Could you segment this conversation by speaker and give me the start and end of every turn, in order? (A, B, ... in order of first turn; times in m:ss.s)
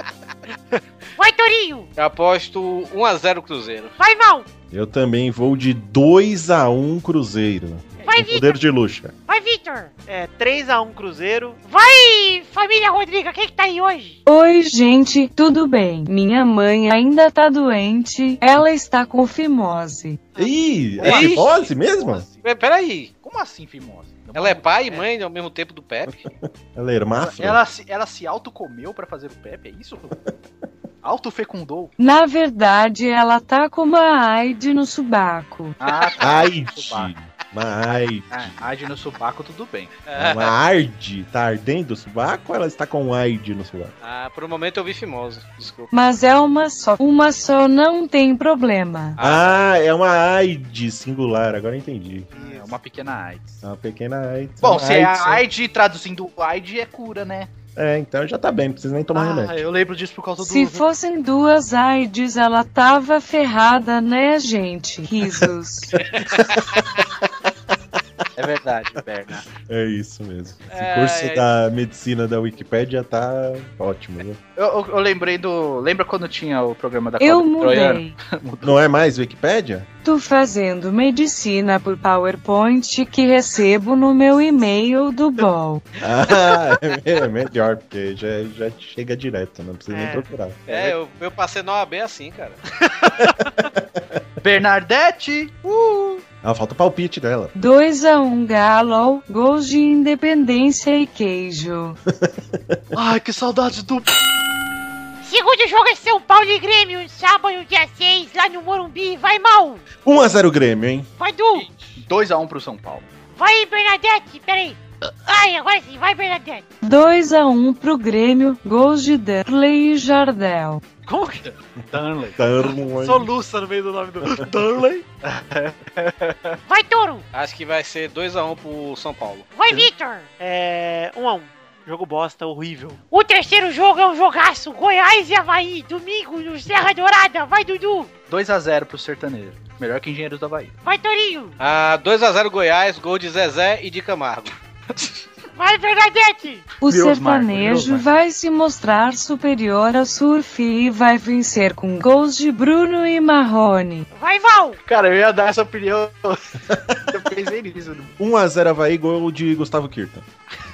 0:01.2-0:01.9 A
0:02.0-0:03.9 B
0:04.0-0:04.5 A
0:04.7-0:09.1 C
0:08.0-0:08.6 A
0:09.3-0:09.9 A
0:10.1-0:11.6 D
0:11.7-0:14.2 A
0:14.3-0:20.3 E
0:20.4-0:22.2 C
0:21.0-0:22.5 F
0:21.0-0:21.5 B
0:22.4-0:23.1 B
0:23.2-0:25.0 F
0:24.4-0:26.2 B
0:26.4-0:27.6 C
0:27.2-0:30.2 F
0:31.0-0:31.9 F
0:32.0-0:35.8 E
0:35.8-0:37.1 F
0:36.2-0:38.5 C
0:38.3-0:40.0 F
0:40.1-0:40.6 B
0:40.2-0:43.9 C
0:44.0-0:45.9 B
0:45.9-0:49.2 E
0:49.2-0:49.6 F
0:49.2-0:52.3 C
0:52.3-0:52.7 D
0:52.3-0:53.6 F
0:53.6-0:55.4 C
0:54.6-0:57.5 F
0:57.8-0:59.6 C
0:59.1-1:00.8 F
1:00.4-1:05.9 E
1:06.2-1:07.3 C
1:08.4-1:09.5 F
1:09.6-1:14.4 C
1:10.7-1:11.4 B
1:14.6-1:18.8 F
1:17.2-1:18.2 E
1:18.6-1:19.9 C
1:20.0-1:25.8 E
1:26.0-1:30.6 C
1:29.9-1:30.3 D
1:30.7-1:30.9 F
1:30.7-1:32.6 B
1:33.6-1:34.2 C
1:34.4-1:36.2 F
1:36.4-1:37.5 C
1:37.6-1:42.0 E
1:42.1-1:42.8 C
1:43.1-1:44.0 D
1:45.2-1:49.9 A
1:50.0-1:51.1 C
1:51.2-1:51.7 A
1:51.5-1:53.1 F
1:53.3-1:56.7 A
1:56.8-2:00.8 E
2:01.1-2:01.5 D
2:01.9-2:02.4 F
2:02.4-2:03.3 C
2:02.9-2:05.0 D
2:05.2-2:06.6 F
2:06.7-2:07.2 A
2:07.3-2:09.5 B
2:09.5-2:10.3 A
2:10.4-2:13.0 D
2:13.1-2:18.1 A
2:18.3-2:20.8 F
2:20.8-2:21.6 A
2:21.6-2:24.6 B
2:25.6-2:26.7 A
2:26.8-2:34.1 E
2:26.8-2:28.1 F
2:34.1-2:34.8 A
2:34.8-2:38.1 F
2:36.7-2:37.0 C
2:38.2-2:40.2 C